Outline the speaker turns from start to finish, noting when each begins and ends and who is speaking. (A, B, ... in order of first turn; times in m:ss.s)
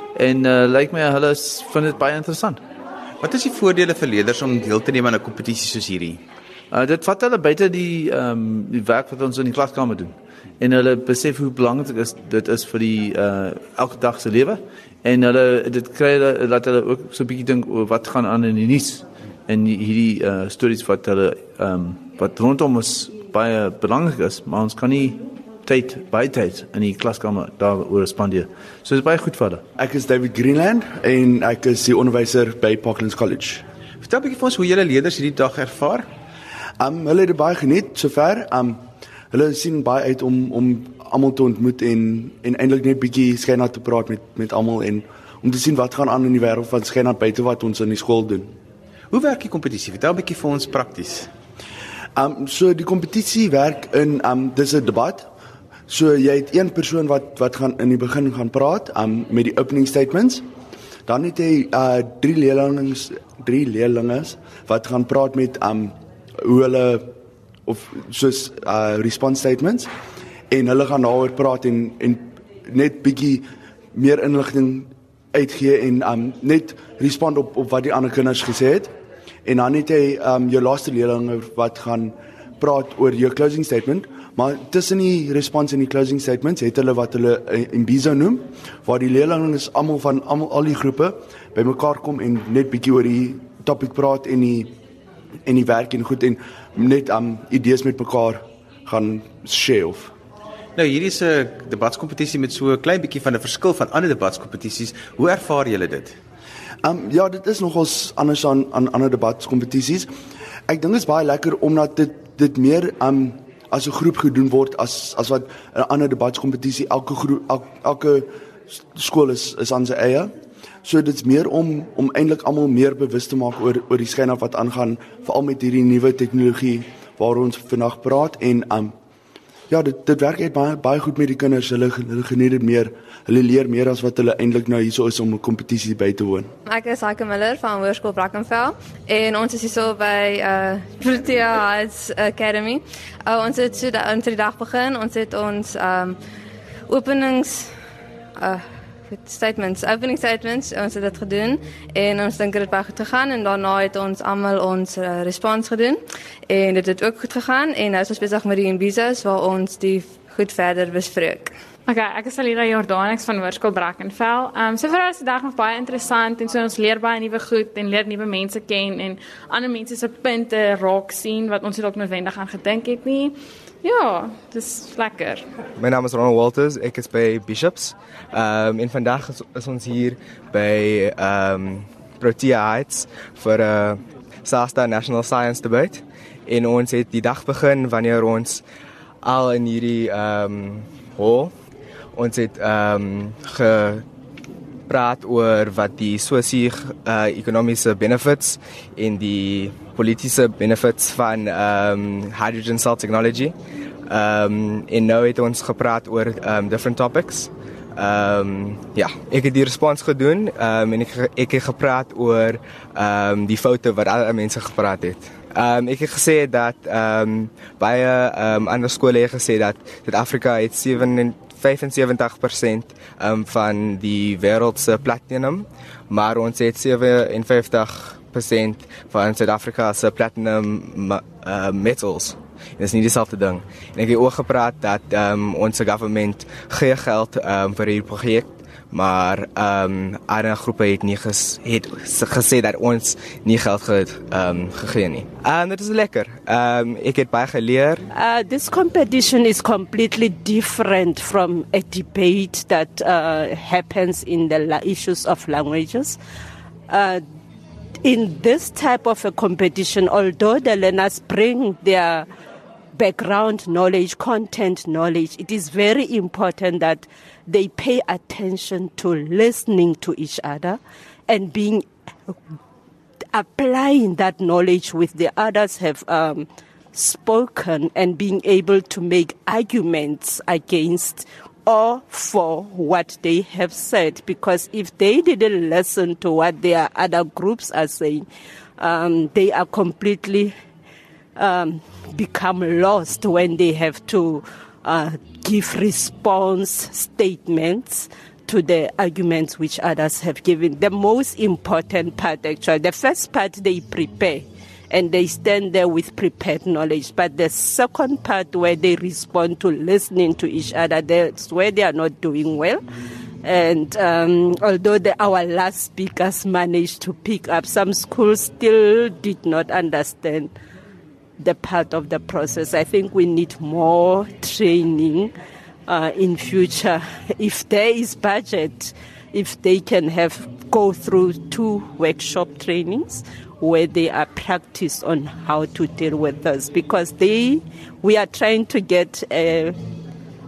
0:00.1-0:02.6 A
0:03.2-0:06.2 B
0:06.7-0:29.6 A
0:29.8-0:33.6 C
0:34.0-0:36.1 B
0:36.8-0:48.5 C
0:49.1-0:51.3 B
0:52.2-0:55.3 C
0:55.9-1:00.4 C
1:01.1-1:07.1 C
1:07.7-1:09.9 C
1:10.5-1:18.9 C
1:19.4-1:34.7 C
1:35.4-1:40.1 C
1:40.7-1:46.2 B
1:46.8-1:50.1 C
1:50.7-2:08.9 C
2:09.7-2:16.5 C
2:16.7-2:26.2 D
2:26.9-2:27.7 D
2:28.4-2:41.5 D
2:41.9-2:55.5 E
2:55.8-3:08.6 F
3:09.2-3:11.5 F
3:12.1-3:14.0 F
3:14.9-3:23.5 F
3:24.1-4:08.0 F
4:08.1-4:16.2 G
4:16.9-4:17.2 G
4:18.0-4:22.3 G
4:22.9-4:32.4 G
4:33.3-4:48.2 G
4:48.8-4:50.5 G
4:51.4-5:12.8 G
5:13.4-5:20.5 G
5:21.4-5:25.3 G
5:25.9-5:39.8 G